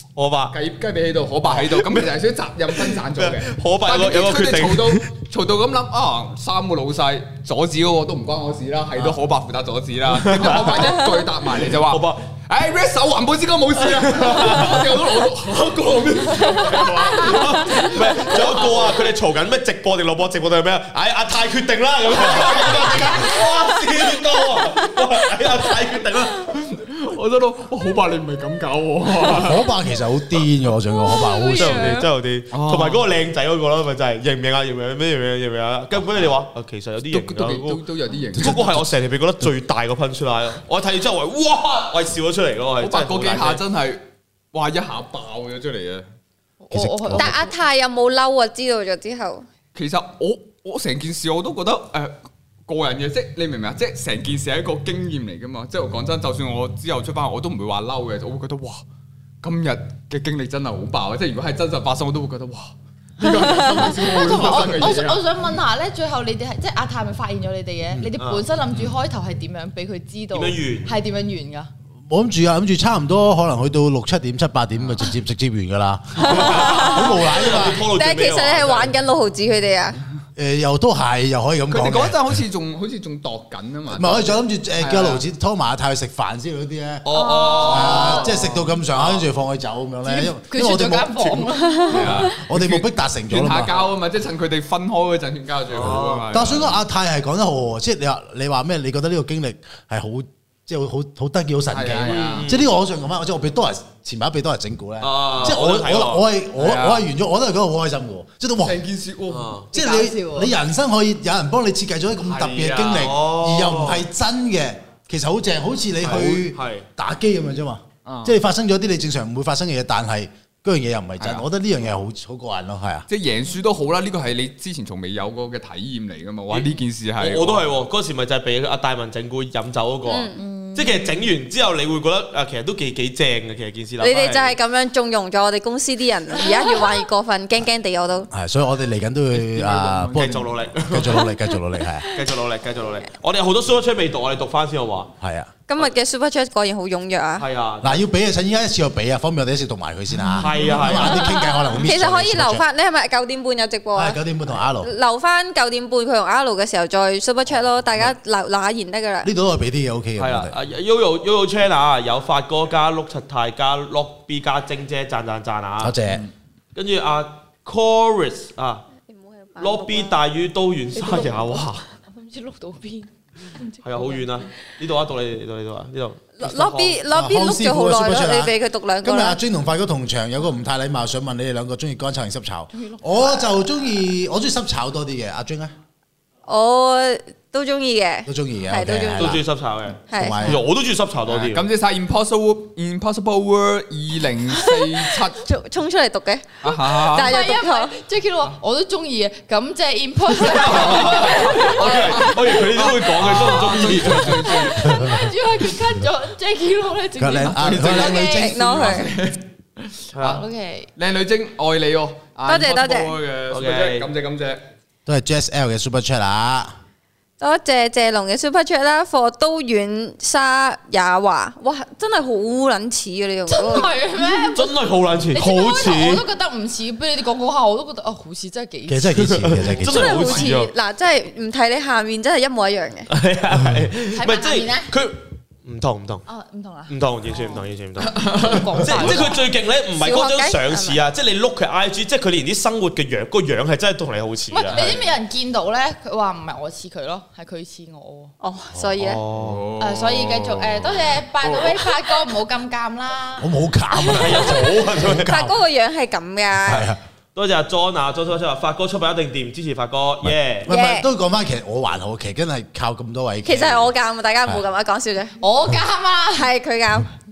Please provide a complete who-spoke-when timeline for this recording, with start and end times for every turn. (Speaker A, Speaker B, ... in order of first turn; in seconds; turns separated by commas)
Speaker A: 0.2-0.6, Speaker B: 0.5-19.1, Speaker A: 1.4-2.1, Speaker A: 2.8-5.1, Speaker A: 10.1-12.2, Speaker A: 13.8-15.0, Speaker A: 16.4-26.4, Speaker B: 22.3-23.0, Speaker B: 26.4-29.7, Speaker C: 29.3-32.0, Speaker D: 31.1-32.1, Speaker A: 31.5-37.8, Speaker B: 32.5-33.0, Speaker B: 37.1-38.7, Speaker A: 38.3-43.6, Speaker C: 38.4-38.9, Speaker B: 42.8-46.1, Speaker D: 46.6-47.5, Speaker C: 46.7-47.3, Speaker E: 47.1-49.5, Speaker B: 49.7-58.8, Speaker B: 59.4-65.3, Speaker D: 63.5-71.7, Speaker A: 64.3-64.7, Speaker A: 68.2-68.5, Speaker A: 70.3-70.9, Speaker C: 72.1-77.8, Speaker A: 76.2-79.0, Speaker E: 76.3-80.0, Speaker C: 80.4-82.2, Speaker B: 81.7-85.2, Speaker C: 83.9-87.0, Speaker A: 87.0-88.4, Speaker D: 87.1-88.2, Speaker C: 87.6-93.9, Speaker B: 87.8-89.2, Speaker D: 90.0-92.3, Speaker E: 91.8-92.0, Speaker B: 91.9-96.8, Speaker A: 95.7-96.5, Speaker C: 96.3-108.8, Speaker B: 101.7-102.5, Speaker A: 102.1-102.7, Speaker A: 105.0-106.3, Speaker B: 106.6-107.0, Speaker B: 108.6-109.7, Speaker A: 109.3-109.7, Speaker D: 109.7-110.5, Speaker C: 109.7-123.1, Speaker B: 112.2-113.1, Speaker A: 113.0-114.0, Speaker A: 116.0-116.9, Speaker B: 118.1-118.4, Speaker B: 121.2-121.5, Speaker B: 123.1-127.7, Speaker A: 126.5-134.6, Speaker E: 130.1-130.4, Speaker D: 130.4-131.2, Speaker E: 134.0-138.3, Speaker D: 136.6-136.9, Speaker C: 138.3-142.1, Speaker B: 139.3-140.5, Speaker A: 140.1-141.3, Speaker A: 142.1-145.1, Speaker C: 145.2-145.5, Speaker E: 145.7-147.4, Speaker A: 147.4-148.1, Speaker C: 147.8-152.7, Speaker A: 150.3-151.4, Speaker D: 151.1-151.7, Speaker E: 151.7-154.2, Speaker C: 153.9-154.9, Speaker E: 154.8-159.3, Speaker C: 159.2-160.6, Speaker A: 160.2-166.0, Speaker C: 165.8-166.3, Speaker A: 166.8-168.8, Speaker E: 169.1-170.2, Speaker A: 169.6-171.8, Speaker D: 171.0-174.3, Speaker A: 173.8-177.0, Speaker E: 176.4-179.4, Speaker C: 177.1-185.7, Speaker D: 182.7-183.4, Speaker E: 186.5-189.4, Speaker C: 188.3-189.4, Speaker A: 189.2-191.7, Speaker E: 190.1-190.5, Speaker C: 190.1-190.6, Speaker B: 191.3-195.4, Speaker E: 194.5-198.0, Speaker B: 196.6-197.3, Speaker D: 197.1-208.5, Speaker A: 200.3-204.8, Speaker B: 200.6-205.2, Speaker C: 204.8-205.2, Speaker C: 207.2-209.1, Speaker B: 207.4-210.4, Speaker E: 208.2-209.1, Speaker A: 210.1-210.4, Speaker D: 210.2-210.9, Speaker B: 210.9-214.7, Speaker E: 212.5-213.2, Speaker A: 213.5-214.1, Speaker C: 215.1-216.8, Speaker E: 217.4-223.9, Speaker D: 223.5-224.8, Speaker A: 224.5-226.2, Speaker D: 225.3-230.3, Speaker C: 228.9-230.2, Speaker A: 229.2-230.7, Speaker E: 229.8-233.1, Speaker A: 233.1-236.2, Speaker D: 234.1-234.9, Speaker D: 236.3-237.6, Speaker A: 236.9-245.0, Speaker B: 238.0-239.1, Speaker D: 238.3-239.4, Speaker E: 240.0-241.0, Speaker D: 244.5-248.3, Speaker B: 244.7-245.0, Speaker E: 248.4-249.2, Speaker A: 249.0-249.7, Speaker B: 249.3-251.8, Speaker D: 249.8-253.5, Speaker C: 253.4-255.6, Speaker A: 254.0-255.3, Speaker E: 255.2-256.9, Speaker C: 256.6-257.0, Speaker A: 257.4-260.7, Speaker C: 260.2-263.9, Speaker E: 260.7-261.1, Speaker E: 263.4-265.4, Speaker D: 265.4-266.5, Speaker E: 266.3-267.1